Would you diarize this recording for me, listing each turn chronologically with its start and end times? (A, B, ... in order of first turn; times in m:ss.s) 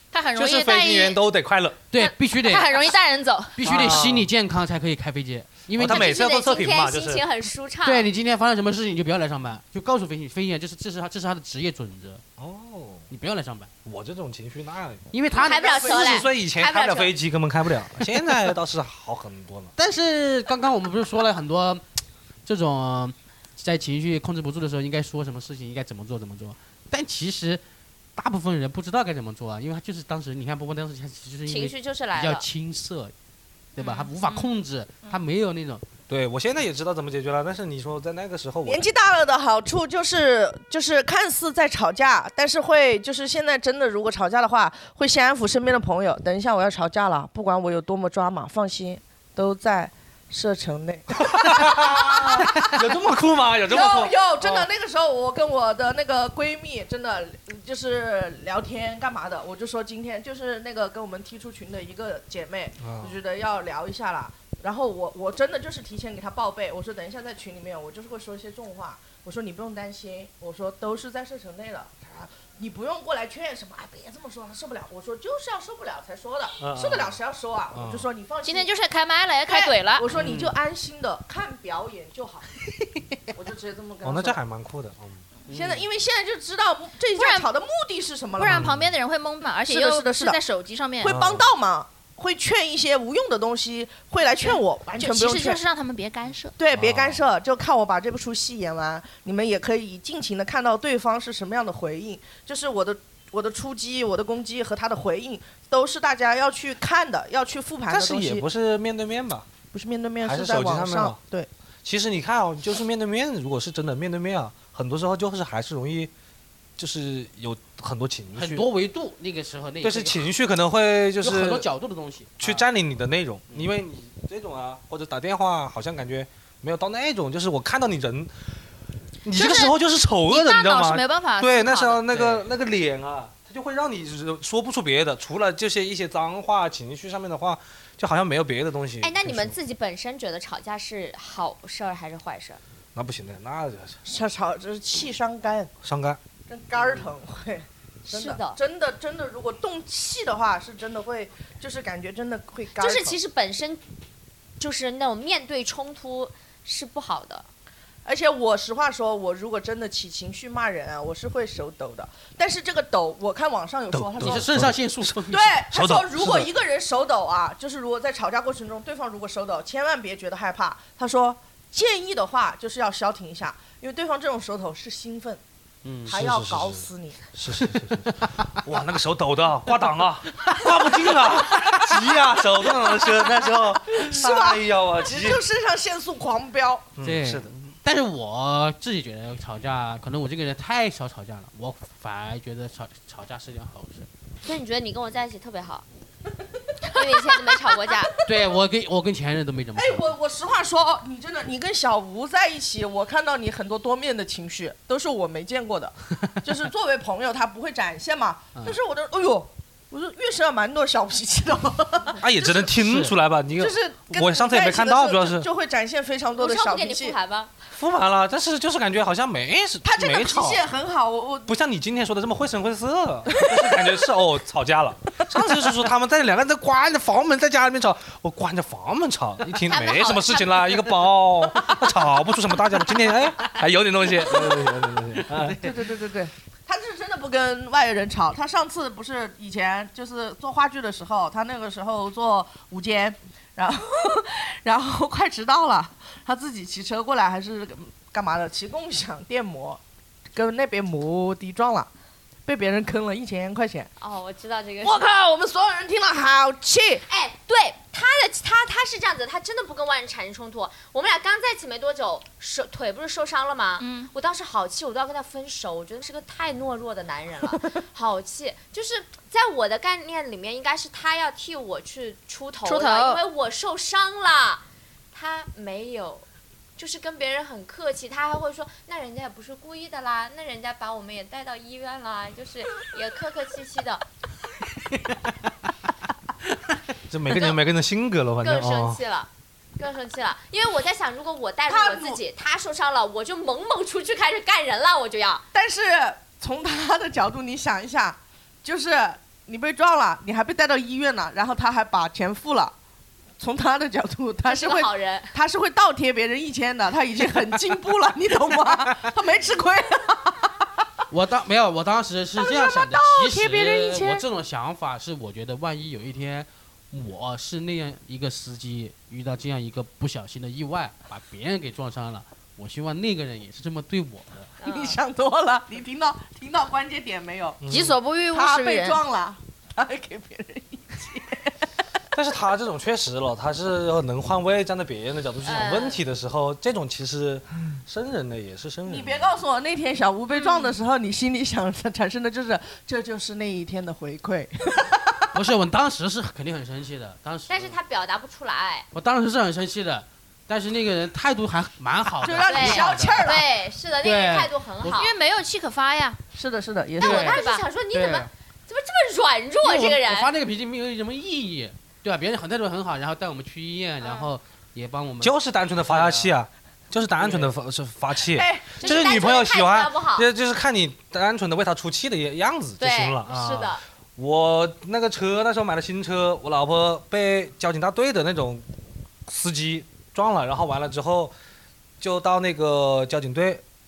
0:00.1-0:01.2 A
0:00.4-0:01.8 B
0:01.9-0:02.8 C
0:02.0-0:04.0 A
0:03.6-0:06.1 C
0:03.6-0:04.3 B
0:05.8-0:07.2 B
0:05.8-0:08.1 D
0:07.8-0:12.2 C
0:12.4-0:13.1 B
0:13.1-0:13.7 C
0:13.8-0:15.1 B
0:15.1-0:16.0 C
0:15.3-0:17.1 D
0:15.4-0:16.2 E
0:15.8-0:19.7 B
0:18.0-0:18.4 C
0:19.8-0:21.8 C
0:22.4-0:27.6 C
0:28.2-0:33.1 C
0:31.5-0:32.5 D
0:33.8-0:34.5 A
0:33.8-0:35.8 C
0:36.1-0:38.8 B
0:38.6-0:52.7 E
0:51.2-0:54.7 B
0:53.7-1:18.7 E
1:02.8-1:03.2 B
1:16.6-1:17.2 B
1:17.7-1:18.1 B
1:18.4-1:20.1 A
1:19.5-1:22.5 E
1:20.1-1:20.6 B
1:20.2-1:20.5 C
1:23.3-1:24.4 E
1:24.0-1:25.2 B
1:25.5-1:25.9 C
1:25.5-1:28.7 E
1:27.2-1:27.5 A
1:28.4-1:31.1 A
1:28.5-1:28.9 B
1:29.7-1:30.4 E
1:31.0-1:35.6 E
1:31.0-1:31.5 B
1:34.4-1:36.6 A
1:36.6-1:48.5 E
1:36.7-1:37.3 B
1:47.9-1:49.5 B
1:49.7-1:51.5 E
1:50.2-1:51.2 B
1:51.8-1:56.1 B
1:56.8-1:58.7 B
1:58.4-2:00.3 C
1:59.8-2:01.7 B
2:01.2-2:02.7 C
2:02.4-2:08.4 B
2:09.2-2:19.6 B
2:09.3-2:09.8 A
2:10.3-2:12.0 A
2:12.1-2:12.4 C
2:19.0-2:22.6 D
2:23.0-2:24.0 B
2:24.0-2:25.7 E
2:25.8-2:26.2 B
2:26.5-2:33.2 E
2:28.1-2:28.6 D
2:32.8-2:33.8 D
2:34.6-2:37.5 D
2:38.0-2:44.6 E
2:43.9-2:46.5 B
2:44.2-2:45.6 C
2:45.3-2:55.4 E
2:55.8-2:56.2 C
2:56.0-3:05.4 B
2:56.0-2:57.2 E
2:57.6-2:58.5 C
3:00.4-3:00.6 C
3:02.9-3:06.9 E
3:07.0-3:07.5 B
3:07.0-3:14.1 C
3:14.4-3:15.8 D
3:16.8-3:17.2 E
3:16.9-3:18.2 D
3:17.7-3:18.4 E
3:18.3-3:20.2 C
3:19.8-3:32.7 E
3:32.2-3:35.5 B
3:32.8-3:33.2 C
3:33.6-3:37.2 E
3:36.3-3:37.5 D
3:37.7-3:40.6 B
3:39.8-3:41.5 E
3:41.5-3:55.6 B
3:43.3-3:43.7 E
3:49.7-3:50.8 D
3:54.3-3:55.8 C
3:55.6-4:09.8 E
4:10.3-4:11.9 E
4:12.4-4:13.9 E
4:14.0-4:15.2 D
4:14.8-4:17.0 E
4:17.1-4:36.3 D
4:23.8-4:24.1 A
4:32.6-4:33.2 A
4:36.8-4:44.0 D
4:47.1-4:49.0 B
4:47.3-4:47.6 D
4:48.4-4:55.4 D
4:51.7-4:52.2 E
4:55.5-5:02.7 E
5:03.4-5:10.6 E
5:04.4-5:05.4 D
5:11.1-5:24.5 C
5:12.4-5:14.2 E
5:24.6-5:25.0 D
5:24.6-5:27.6 E
5:27.6-5:28.0 B
5:27.7-5:29.0 A
5:28.3-5:31.6 E
5:32.1-5:39.3 B
5:35.4-5:36.0 D
5:38.9-5:45.3 E
5:45.3-5:47.8 C
5:47.5-5:48.9 D
5:48.9-5:53.3 C
5:52.2-5:53.5 E
5:52.5-5:55.1 D
5:54.0-5:55.1 C
5:54.8-5:56.2 A
5:56.3-5:57.4 E
5:57.0-6:00.3 D
5:57.0-5:58.3 C
5:57.1-5:57.6 A
5:59.6-6:06.3 C
6:05.2-6:18.7 B
6:07.2-6:07.5 C
6:08.3-6:09.0 E
6:08.8-6:10.3 D
6:12.8-6:13.8 D
6:13.3-6:13.6 C
6:19.3-6:21.3 B
6:22.0-6:23.6 B